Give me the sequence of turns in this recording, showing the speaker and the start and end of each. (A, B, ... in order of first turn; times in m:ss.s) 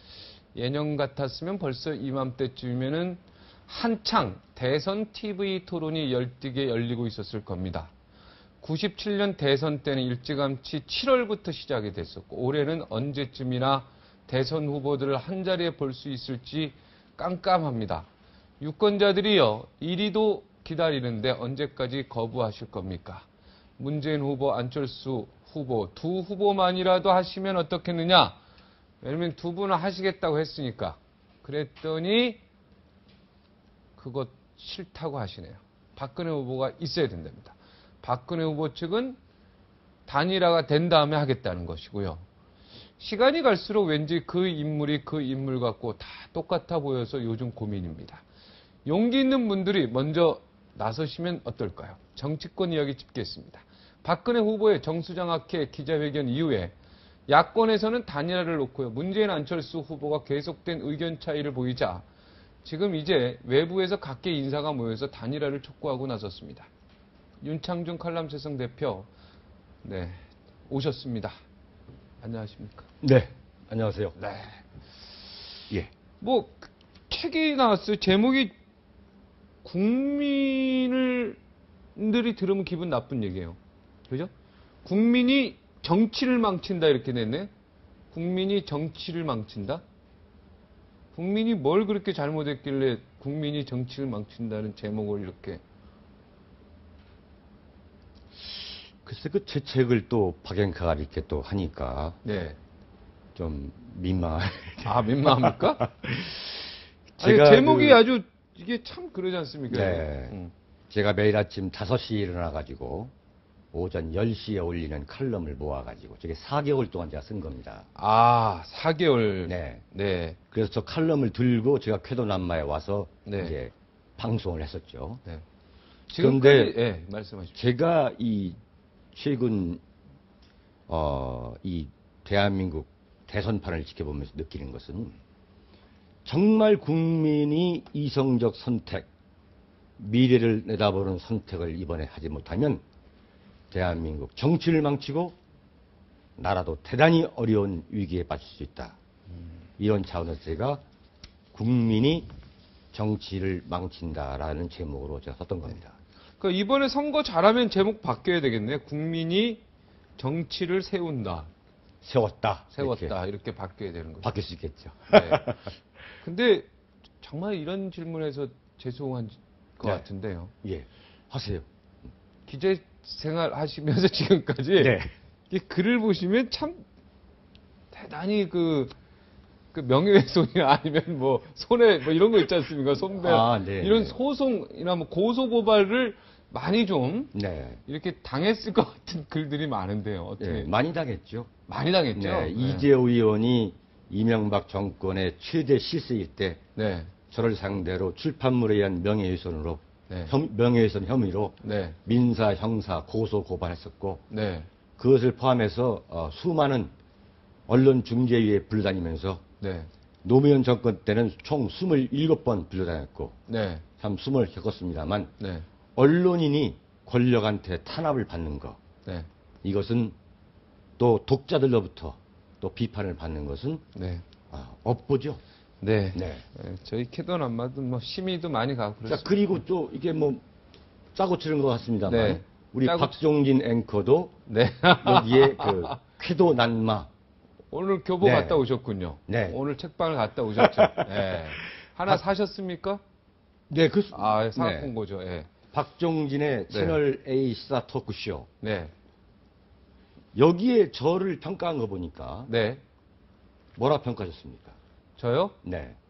0:00.6-0:07.9 A
0:08.6-0:18.1 A
0:18.6-0:23.3 A
0:23.8-0:28.4 A
0:29.0-0:32.4 A
0:34.0-0:39.2 A
0:40.1-0:42.2 A
0:43.0-0:48.2 A
0:48.8-0:56.7 A
0:57.3-1:02.0 A
1:02.6-1:06.7 A
1:07.4-1:09.1 A
1:09.8-1:11.4 A
1:12.2-1:12.9 A
1:13.0-1:14.2 B
1:14.2-1:14.6 A
1:16.2-1:18.5 A
1:19.6-1:21.4 A
1:22.0-1:23.6 A
1:24.8-1:27.5 A
1:28.1-1:29.8 A
1:31.1-1:35.6 A
1:39.0-1:42.2 B
1:42.2-1:42.6 A
1:43.4-1:46.6 B
1:44.8-1:45.9 A
1:47.2-1:48.0 B
1:47.2-1:50.5 A
1:49.7-1:50.4 B
1:50.9-1:53.1 B
1:53.7-1:57.8 B
1:58.0-2:00.4 A
1:59.5-1:59.8 B
2:00.5-2:05.2 B
2:03.3-2:03.6 A
2:06.1-2:07.6 A
2:06.1-2:06.8 B
2:07.6-2:08.6 B
2:09.1-2:09.8 B
2:10.9-2:15.1 B
2:16.2-2:19.1 B
2:20.0-2:22.8 B
2:23.7-2:25.4 B
2:26.4-2:29.0 B
2:29.8-2:30.8 B
2:31.5-2:32.3 B
2:32.9-2:36.0 B
2:36.4-2:39.6 A
2:40.2-2:41.5 A
2:42.0-2:43.1 B
2:42.7-2:44.3 A
2:44.2-2:45.7 B
2:45.1-2:45.6 A
2:46.2-2:46.7 A
2:47.2-2:50.5 A
2:50.6-2:51.7 B
2:52.5-2:55.0 A
2:54.8-2:55.1 B
2:55.5-2:56.8 A
2:57.9-2:58.9 A
2:59.7-3:07.3 A
3:03.2-3:04.2 B
3:07.3-3:07.8 B
3:07.9-3:10.7 A
3:10.4-3:11.5 B
3:11.7-3:12.9 A
3:12.1-3:16.6 B
3:16.8-3:17.1 A
3:17.3-3:24.2 B
3:21.6-3:22.0 A
3:24.3-3:24.7 A
3:25.0-3:26.9 B
3:27.7-3:29.4 B
3:29.6-3:29.9 A
3:30.2-3:33.4 B
3:33.5-3:33.8 A
3:34.0-3:35.3 B
3:35.4-3:35.6 A
3:36.0-3:38.8 B
3:39.6-3:40.2 B
3:41.0-3:43.8 B
3:44.0-3:44.2 A
3:44.5-3:45.4 B
3:45.8-3:49.5 A
3:46.1-3:46.4 B
3:49.1-3:50.4 B
3:51.2-3:54.4 B
3:52.1-3:53.2 A
3:54.5-3:56.0 A
3:55.0-3:57.1 B
3:57.7-4:03.0 A
3:58.2-3:58.6 B
3:59.3-3:59.6 B
4:00.6-4:01.4 B
4:03.7-4:04.9 B
4:04.1-4:05.5 A
4:05.7-4:08.5 B
4:06.7-4:07.0 A
4:08.6-4:08.9 A
4:10.3-4:12.5 B
4:12.5-4:12.8 A
4:13.8-4:14.8 B
4:15.2-4:15.6 A
4:15.6-4:16.0 B